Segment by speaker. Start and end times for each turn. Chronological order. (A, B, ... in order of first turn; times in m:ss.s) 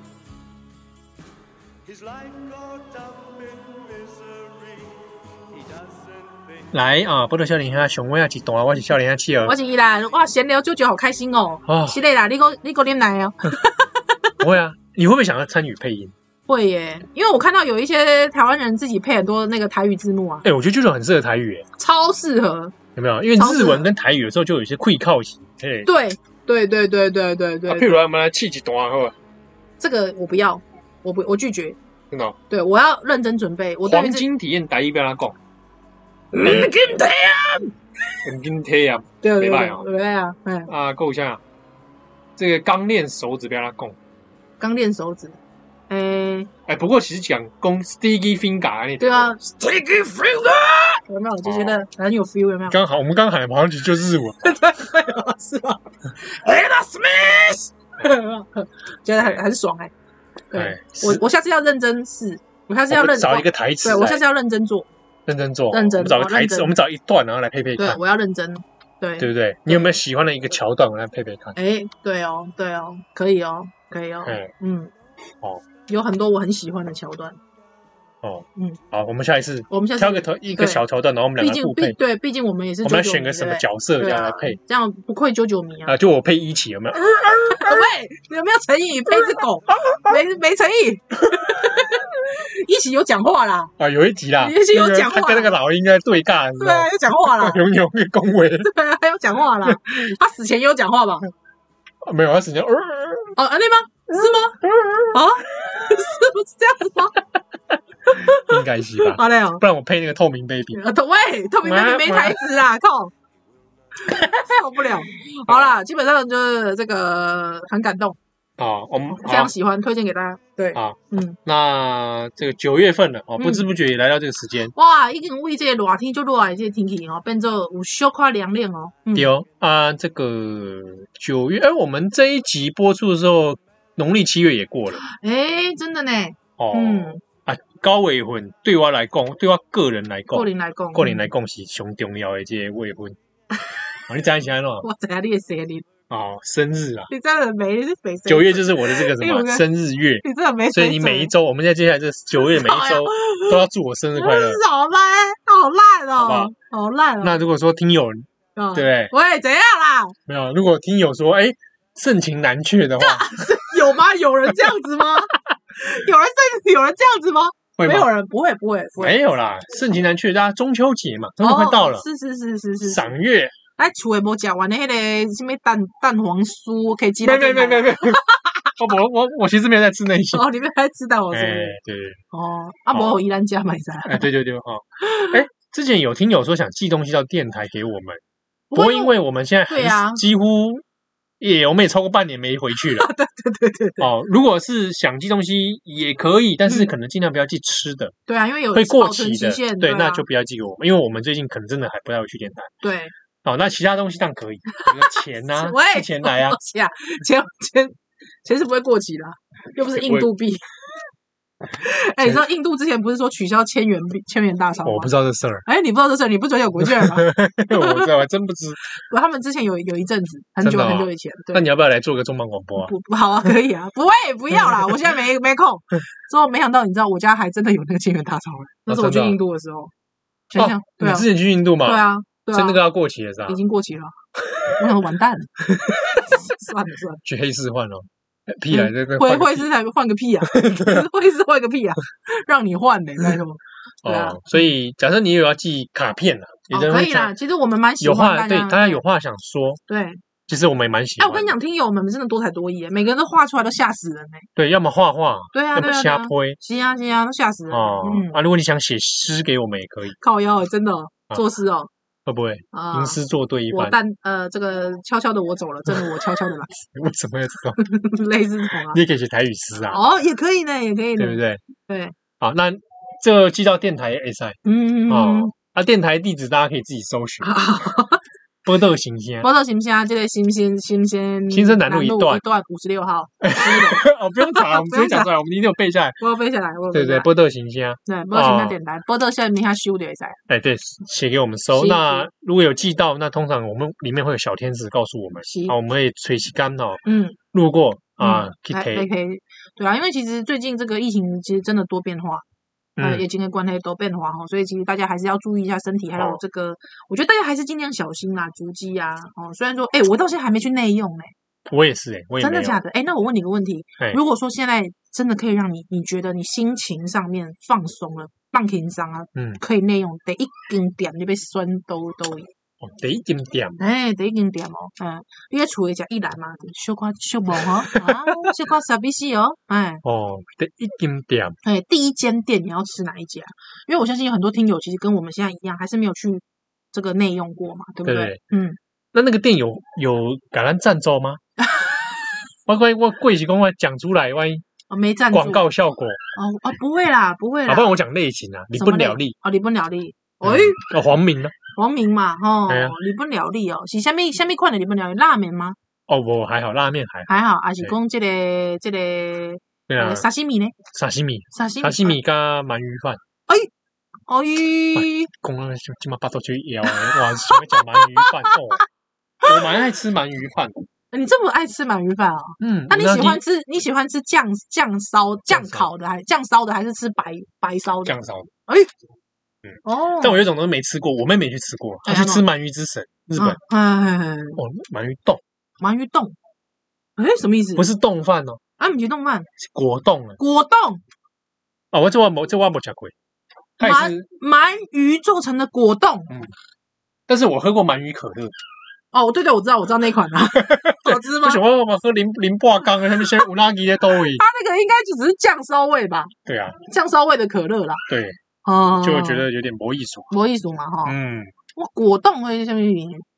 0:01.8-0:06.7 A
0:06.7-0:09.6 B
0:09.4-0:14.3 C
0:11.7-0:12.0 B
0:14.4-0:16.1 B
0:16.5-0:20.5 C
0:20.4-0:21.7 B
0:21.8-0:22.8 C
0:23.0-0:25.9 B
0:23.4-0:23.9 C
0:25.8-0:28.0 C
0:27.7-0:29.2 B
0:29.8-0:31.8 C
0:32.1-0:32.4 B
0:32.5-0:34.2 C
0:33.9-0:35.4 B
0:36.3-0:37.7 C
0:36.4-0:36.8 B
0:38.2-0:39.9 B
0:39.2-0:40.7 C
0:40.7-0:41.4 B
0:42.4-0:44.0 B
0:44.6-0:45.4 C
0:45.9-0:46.5 C
0:46.7-0:49.4 B
0:49.0-0:52.8 C
0:51.4-0:51.8 B
0:52.7-0:54.6 B
0:54.4-0:59.9 C
1:00.5-1:04.9 C
1:00.5-1:01.2 B
1:02.9-1:04.2 B
1:05.3-1:08.0 B
1:05.7-1:06.8 C
1:07.8-1:09.9 C
1:09.2-1:11.6 B
1:11.6-1:14.9 C
1:14.3-1:14.5 B
1:15.9-1:17.4 C
1:18.2-1:22.0 B
1:19.7-1:20.8 C
1:21.4-1:26.0 C
1:22.8-1:24.6 B
1:25.9-1:27.9 B
1:27.1-1:33.7 C
1:29.9-1:30.2 B
1:33.8-1:38.7 B
1:34.4-1:35.5 C
1:36.6-1:37.6 C
1:38.6-1:41.3 C
1:42.0-1:43.4 B
1:43.4-1:47.3 C
1:44.6-1:45.2 B
1:48.0-1:49.6 C
1:48.2-1:50.8 B
1:50.7-1:53.1 C
1:51.6-1:52.4 B
1:54.0-1:58.2 C
1:55.5-1:55.8 B
1:58.6-1:59.5 B
1:59.2-2:01.4 C
2:00.8-2:04.7 B
2:03.4-2:03.6 C
2:04.8-2:09.3 C
2:09.1-2:15.0 B
2:15.0-2:17.2 C
2:16.6-2:23.2 B
2:20.3-2:21.3 C
2:24.1-2:24.9 B
2:24.8-2:25.9 C
2:26.1-2:27.1 B
2:27.1-2:29.6 C
2:28.3-2:34.6 B
2:30.2-2:31.3 C
2:32.3-2:33.6 C
2:34.2-2:37.4 C
2:36.2-2:36.5 B
2:37.2-2:39.1 B
2:38.6-2:40.2 C
2:40.3-2:43.5 B
2:43.0-2:49.2 C
2:47.8-2:48.1 B
2:49.0-2:52.1 B
2:51.4-2:53.1 C
2:52.8-2:53.6 B
2:53.8-2:58.7 C
2:57.2-2:58.2 B
2:58.8-3:00.4 B
3:00.3-3:01.8 C
3:01.3-3:02.2 B
3:02.3-3:04.3 C
3:02.9-3:03.2 B
3:04.0-3:08.2 B
3:05.0-3:05.4 C
3:08.7-3:09.2 C
3:08.7-3:10.8 B
3:09.7-3:10.2 C
3:11.4-3:13.1 B
3:12.8-3:14.1 C
3:14.0-3:18.2 B
3:18.3-3:20.2 C
3:18.7-3:22.8 B
3:22.8-3:23.1 C
3:23.4-3:26.6 B
3:24.8-3:30.6 C
3:29.9-3:30.3 B
3:31.7-3:35.1 C
3:34.8-3:35.7 B
3:35.6-3:38.1 C
3:36.8-3:38.8 B
3:38.9-3:41.7 C
3:40.6-3:42.9 B
3:42.8-3:49.9 C
3:44.7-3:45.0 B
3:48.9-3:49.4 B
3:50.5-3:51.3 C
3:50.6-3:53.6 B
3:51.8-3:52.8 C
3:53.5-3:57.2 C
3:57.2-3:59.7 B
3:58.7-4:04.4 C
4:00.4-4:01.1 B
4:04.0-4:07.3 B
4:06.7-4:09.0 C
4:08.0-4:09.8 B
4:09.9-4:10.2 C
4:10.5-4:11.5 B
4:11.2-4:14.5 C
4:14.6-4:16.6 B
4:15.5-4:18.4 C
4:17.7-4:20.2 B
4:20.2-4:21.9 C
4:22.3-4:24.0 B
4:22.7-4:23.2 C
4:23.7-4:26.8 C
4:26.9-4:27.8 B
4:27.8-4:29.0 C
4:28.9-4:30.0 B
4:29.9-4:32.2 C
4:31.2-4:31.6 B
4:32.4-4:37.6 B
4:34.6-4:35.5 C
4:37.4-4:38.2 C
4:38.6-4:39.5 B
4:39.4-4:45.3 C
4:41.5-4:42.4 B
4:43.4-4:46.2 B
4:46.2-4:47.3 C
4:46.9-4:48.8 B
4:48.1-4:50.4 C
4:50.5-4:59.1 B
4:51.7-4:52.3 C
4:55.4-4:55.8 C
4:57.0-4:57.4 C
4:58.2-5:02.4 C
5:03.0-5:03.2 B
5:03.0-5:11.3 C
5:11.7-5:12.8 B
5:12.4-5:22.5 C
5:19.4-5:19.6 B
5:22.8-5:23.8 B
5:23.8-5:30.0 C
5:27.7-5:28.4 B
5:30.0-5:31.6 B
5:31.6-5:38.8 C
5:38.0-5:38.4 B
5:39.1-5:41.4 B
5:41.6-5:42.1 C
5:42.7-5:44.6 B
5:44.9-5:45.6 C
5:45.3-5:46.2 B
5:46.4-5:47.9 C
5:47.7-5:49.4 B
5:48.8-5:50.8 C
5:50.4-5:51.6 B
5:51.8-5:55.8 C
5:52.7-5:53.0 B
5:56.1-5:57.3 B
5:57.3-6:00.8 C
5:59.9-6:00.3 B
6:00.8-6:03.2 B
6:01.5-6:02.2 C
6:04.3-6:05.3 C
6:05.0-6:08.8 B
6:06.9-6:08.8 C
6:09.4-6:10.9 B
6:11.1-6:18.2 C
6:12.6-6:13.4 B
6:15.5-6:15.9 B
6:18.1-6:18.5 B
6:19.7-6:23.6 B
6:19.8-6:20.4 C
6:22.1-6:22.4 C
6:23.4-6:24.6 C
6:24.6-6:25.4 B
6:25.8-6:26.4 C
6:27.2-6:27.9 C
6:27.8-6:28.6 B
6:28.8-6:29.5 C
6:29.6-6:30.4 B
6:30.4-6:31.0 C
6:31.9-6:33.1 B
6:33.8-6:34.2 B
6:33.8-6:36.3 C
6:37.3-6:38.6 B
6:39.1-6:41.6 C
6:40.7-6:44.4 B
6:44.3-6:48.0 C
6:46.5-6:46.8 B
6:48.1-6:48.4 B
6:48.6-6:49.4 C
6:49.0-6:50.3 B
6:50.3-6:51.2 C
6:51.0-6:51.5 B
6:51.8-6:53.2 C